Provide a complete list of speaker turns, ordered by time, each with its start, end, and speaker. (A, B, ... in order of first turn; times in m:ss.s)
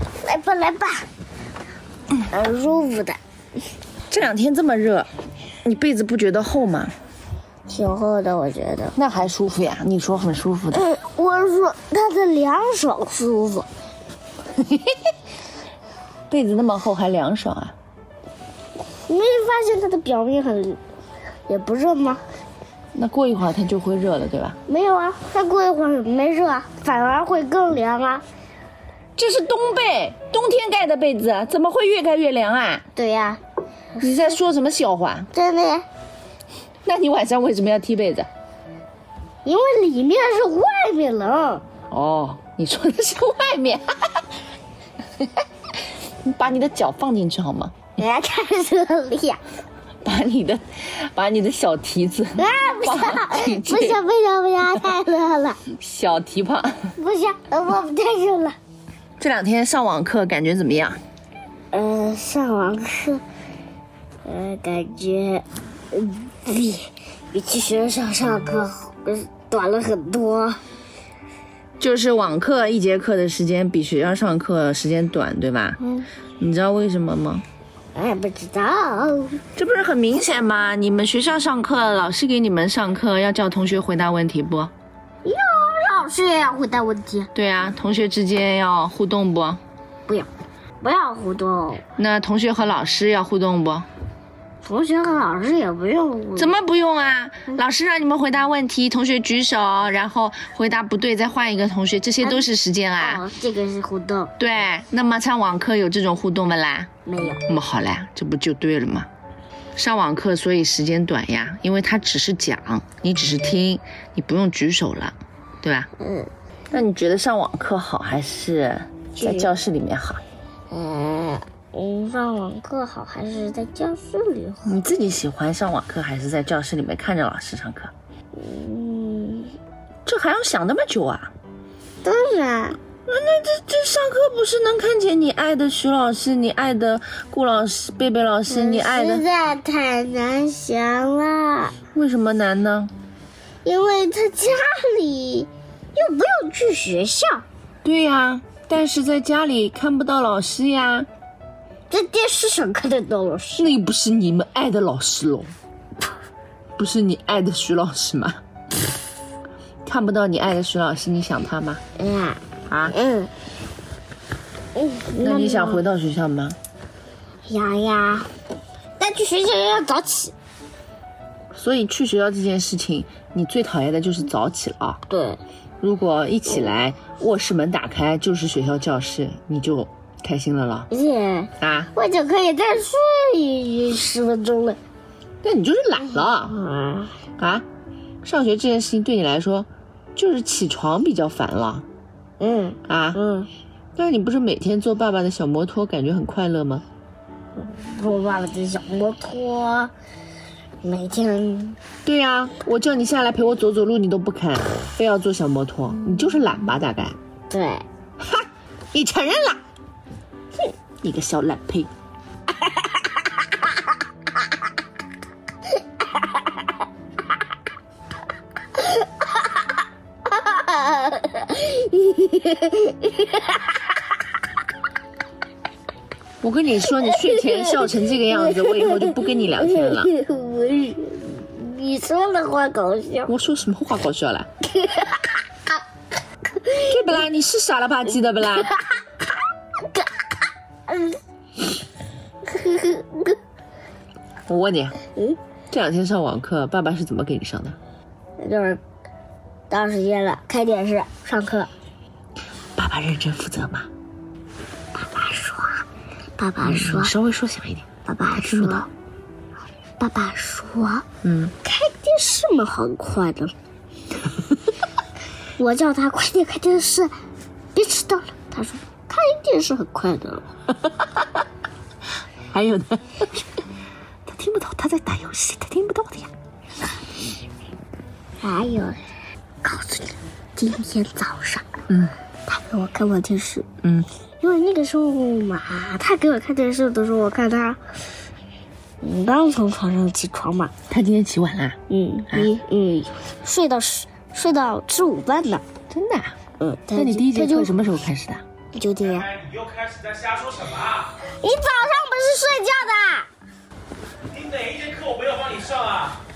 0:00.2-0:01.0 A
0:02.3-0:03.2 A
0:04.1-0:05.1 B
0:05.6-0:06.9 B
0:07.7-0:09.0 A
0:09.0-0:10.8 B
0:10.7-0:13.7 A
0:14.6-0:15.0 B
0:16.3-0:17.8 B
0:19.0-0:20.8 A
0:21.5-0:22.2 A
0:22.9-0:24.6 B
0:24.7-0:28.2 A
0:29.2-0:32.8 B
0:32.9-0:33.4 A
0:34.0-0:34.4 A
0:34.0-0:35.3 B
0:35.3-0:35.8 A
0:36.8-0:38.3 B
0:39.4-0:41.6 A
0:41.9-0:44.2 B
0:46.1-0:47.9 B
0:48.0-0:49.4 A
0:50.0-0:54.0 B
0:52.4-0:55.6 A
0:55.7-0:56.9 B
0:57.0-0:58.6 A
0:59.2-1:01.0 B
1:01.7-1:03.2 A
1:04.2-1:10.6 A
1:11.8-1:15.8 B
1:16.4-1:17.4 B
1:17.9-1:19.4 A
1:19.6-1:24.7 B
1:25.2-1:27.3 A
1:27.3-1:29.6 B
1:30.8-1:31.8 A
1:32.0-1:33.9 B
1:34.6-1:36.6 A
1:36.4-1:43.2 B
1:42.2-1:44.3 A
1:44.4-1:46.9 B
1:47.0-1:47.4 A
1:47.5-1:49.1 B
1:49.8-1:55.9 B
1:56.0-1:56.3 A
1:56.7-2:00.2 B
1:59.2-1:59.5 A
2:00.7-2:04.7 A
2:04.6-2:07.9 B
2:08.3-2:09.5 A
2:10.0-2:11.3 B
2:12.0-2:12.8 A
2:13.1-2:19.2 B
2:18.5-2:21.7 A
2:21.9-2:22.9 B
2:23.6-2:27.4 A
2:27.8-2:31.1 B
2:31.9-2:33.7 A
2:33.6-2:35.5 B
2:36.8-2:38.4 B
2:39.8-2:41.8 B
2:42.0-2:43.3 A
2:42.7-2:42.9 B
2:44.7-2:45.8 A
2:45.2-2:46.6 B
2:47.4-2:48.3 A
2:49.0-2:50.3 A
2:51.5-2:55.0 B
2:55.1-2:55.4 A
2:55.8-3:00.9 B
3:00.9-3:04.8 A
3:01.6-3:01.9 B
3:05.4-3:06.6 B
3:06.3-3:07.1 A
3:07.4-3:07.6 B
3:08.2-3:11.8 B
3:12.4-3:13.5 A
3:12.8-3:13.2 B
3:14.0-3:16.8 B
3:17.6-3:19.9 A
3:20.8-3:21.8 A
3:22.0-3:27.2 B
3:27.5-3:27.8 A
3:28.2-3:29.6 B
3:31.0-3:31.9 B
3:40.3-3:43.6 A
3:46.4-3:50.1 B
3:47.1-3:53.3 A
3:53.3-3:54.5 B
3:54.7-3:55.3 A
3:56.6-3:56.9 A
3:56.8-3:58.8 B
4:00.9-4:01.2 A
4:02.4-4:03.4 A
4:04.5-4:05.0 B
4:05.7-4:07.8 B
4:08.4-4:08.8 A
4:09.7-4:11.7 A
4:12.8-4:13.9 B
4:14.9-4:15.8 A
4:16.4-4:17.1 A
4:16.6-4:18.9 B
4:18.0-4:18.9 A
4:20.0-4:21.0 A
4:21.2-4:21.5 B
4:21.6-4:23.5 A
4:25.6-4:27.1 A
4:27.7-4:30.5 A
4:32.5-4:33.5 B
4:34.2-4:36.3 B
4:38.4-4:39.0 A
4:39.6-4:41.7 A
4:41.9-4:42.1 B
4:42.4-4:43.7 A
4:43.8-4:44.1 B
4:44.4-4:47.8 A
4:49.0-4:50.7 A
4:50.9-4:52.5 B
4:51.9-4:55.6 A
4:55.9-4:56.4 B
4:56.6-4:57.7 A
4:56.9-4:58.4 B
4:58.7-4:59.5 A
4:59.8-5:00.6 C
5:00.9-5:03.3 A
5:04.6-5:06.0 C